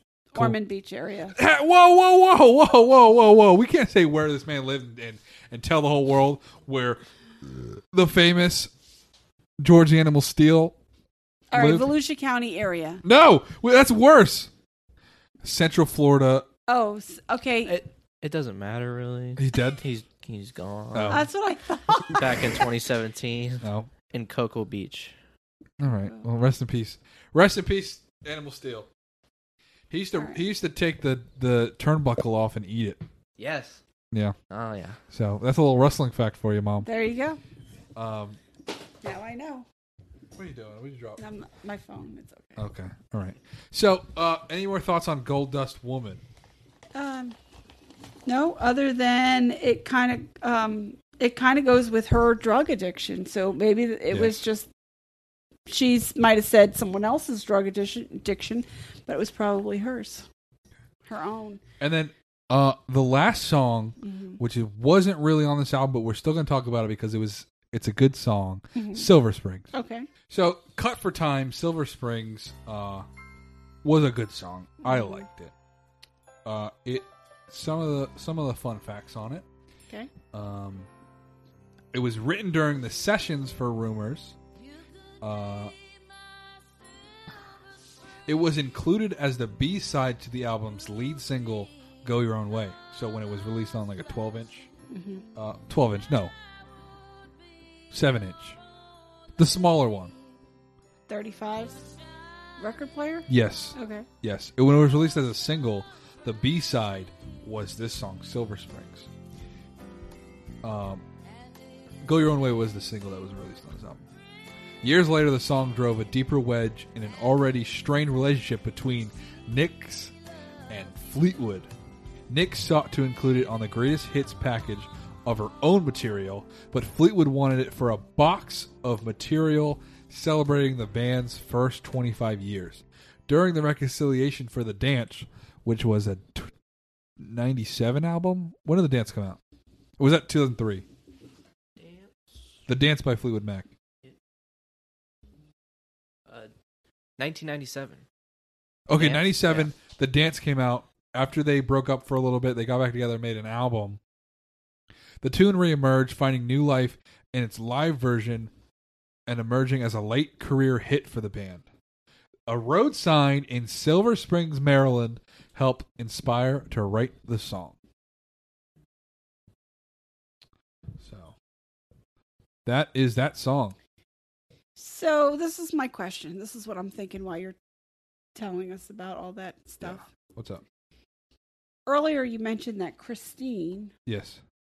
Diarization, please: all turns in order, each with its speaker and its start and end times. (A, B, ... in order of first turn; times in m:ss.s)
0:00.3-0:01.4 A
0:01.4-0:07.0 B
0:07.9-0:08.7 B
0:09.6-0:10.8 B
0:11.5-0:13.0 A
0:11.5-0:11.9 B
0:13.0-0:14.5 B
0:15.4-0:16.5 B
0:16.7-0:17.8 A
0:17.6-0:21.3 C
0:19.4-0:19.8 B
0:20.9-0:21.3 B
0:21.1-0:22.6 A
0:22.0-0:25.2 C
0:23.6-0:23.9 B
0:25.8-0:28.9 B
0:29.9-0:33.0 B
0:30.2-0:30.4 A
0:33.4-0:33.8 C
0:34.5-0:35.0 C
0:35.1-0:36.9 B
0:36.8-0:37.4 A
0:38.0-0:38.4 B
0:39.0-0:39.7 A
0:40.4-0:41.2 B
0:41.2-0:42.6 A
0:42.6-0:46.2 B
0:46.9-0:47.4 A
0:48.3-0:54.7 A
0:54.1-0:54.4 B
0:55.7-1:00.3 A
1:01.1-1:01.6 A
1:01.8-1:09.7 B
1:04.0-1:04.4 A
1:08.8-1:09.1 A
1:09.7-1:10.1 A
1:10.3-1:13.1 B
1:13.8-1:15.5 B
1:14.8-1:15.3 A
1:16.4-1:19.5 B
1:20.3-1:20.9 B
1:21.9-1:24.4 B
1:25.2-1:25.7 B
1:28.3-1:34.7 B
1:34.9-1:35.3 A
1:35.4-1:36.3 B
1:37.9-1:38.6 B
1:39.4-1:40.1 B
1:41.1-1:41.9 A
1:42.6-1:44.1 A
1:43.3-1:49.1 B
1:50.6-1:51.0 B
1:52.0-1:54.1 B
1:54.8-2:00.1 B
2:00.7-2:01.7 B
2:02.3-2:16.5 B
2:17.2-2:19.4 B
2:20.0-2:20.8 B
2:21.8-2:22.4 C
2:22.7-2:23.7 B
2:27.2-2:28.0 C
2:28.9-2:34.0 B
2:28.9-2:29.7 C
2:35.2-2:38.5 B
2:39.3-2:41.6 B
2:42.5-2:47.8 B
2:51.0-2:51.3 B
2:52.6-2:53.8 B
2:54.8-2:57.6 A
2:58.4-3:00.0 A
2:59.8-3:00.6 B
3:01.9-3:03.9 A
3:04.1-3:04.4 B